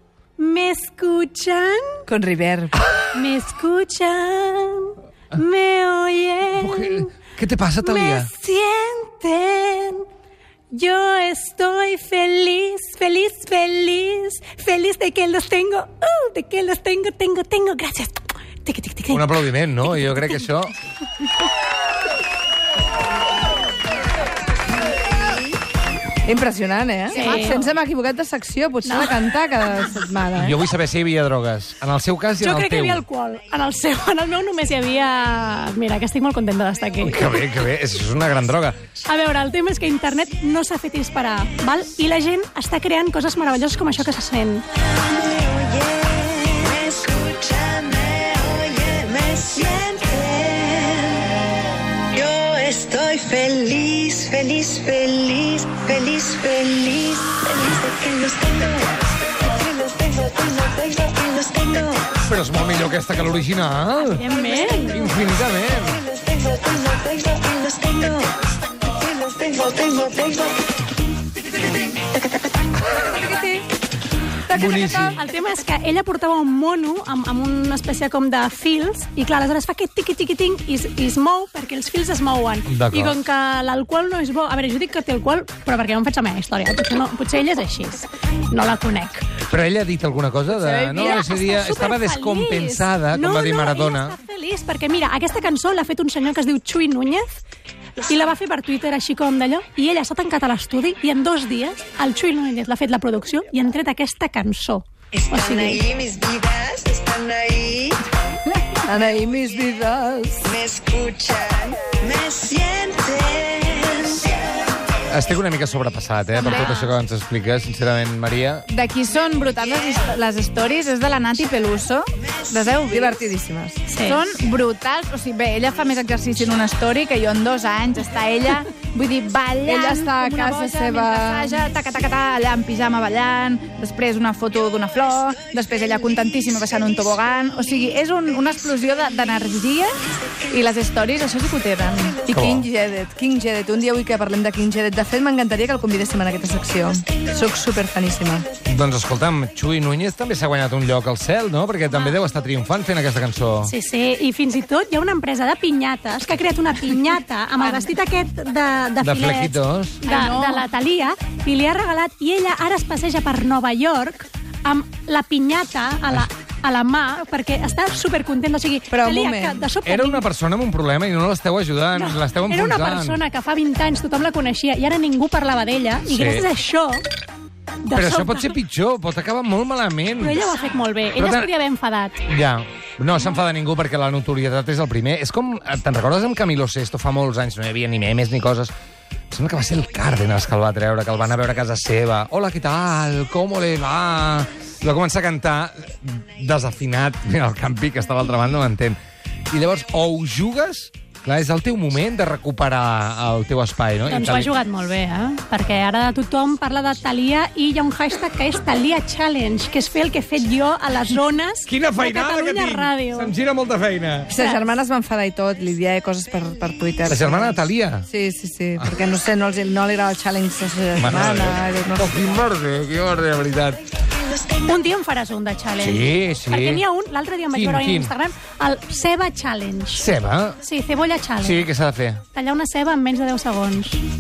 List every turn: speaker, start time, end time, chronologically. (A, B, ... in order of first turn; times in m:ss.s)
0:00.4-0:02.0 A
0:02.1-0:02.8 B
0:03.1-0:07.1 A
0:06.6-0:08.3 C
0:07.8-0:10.1 A
0:10.7-0:20.4 A
0:19.1-0:20.8 C
0:26.2-0:30.6 B
0:27.1-0:27.7 A
0:28.8-0:29.3 A
0:30.4-0:33.0 C
0:32.4-0:37.5 A
0:37.0-0:38.8 C
0:39.0-0:44.6 A
0:45.2-0:51.3 D
0:52.1-1:02.1 D
1:02.2-1:04.2 C
1:04.0-1:05.1 A
1:04.8-1:06.1 C
1:06.2-1:08.3 D
1:09.0-1:10.5 D
1:13.0-1:13.6 B
1:14.5-1:15.2 C
1:14.5-1:15.1 B
1:14.8-1:29.3 A
1:22.7-1:23.2 C
1:29.5-1:34.2 C
1:30.6-1:31.1 B
1:30.7-1:37.4 A
1:38.0-1:45.8 A
1:45.2-1:48.0 D
1:48.9-1:50.5 B
1:50.5-1:54.4 D
1:55.1-1:58.7 C
1:56.4-1:56.9 A
1:56.4-1:56.8 E
1:58.7-2:03.3 E
2:02.9-2:03.8 B
2:03.9-2:04.2 A
2:04.0-2:19.9 E
2:09.6-2:11.6 B
2:20.4-2:22.2 E
2:22.2-2:22.7 C
2:22.3-2:28.5 B
2:28.6-2:33.7 C
2:31.9-2:32.2 A
2:33.6-2:50.3 A
2:39.0-2:40.0 C
2:40.0-2:40.6 E
2:48.9-2:49.7 B
2:49.8-2:53.2 C
2:51.9-2:57.0 A
2:56.1-2:56.5 C
2:57.8-2:58.6 A
2:57.9-3:00.4 C
3:00.2-3:02.2 A
3:01.2-3:01.5 C
3:02.3-3:08.7 C
3:09.3-3:19.0 C
3:19.5-3:24.5 C
3:24.1-3:33.3 A
3:31.7-3:34.3 C
3:34.3-3:42.3 B
3:34.4-3:34.6 A
3:37.1-3:38.1 C
3:41.0-3:43.8 C
3:44.6-3:50.1 A
3:45.8-3:46.8 C
3:47.5-3:48.1 C
3:50.0-3:50.6 C
3:50.6-3:51.7 A
3:51.4-3:52.2 C
3:52.3-3:54.0 A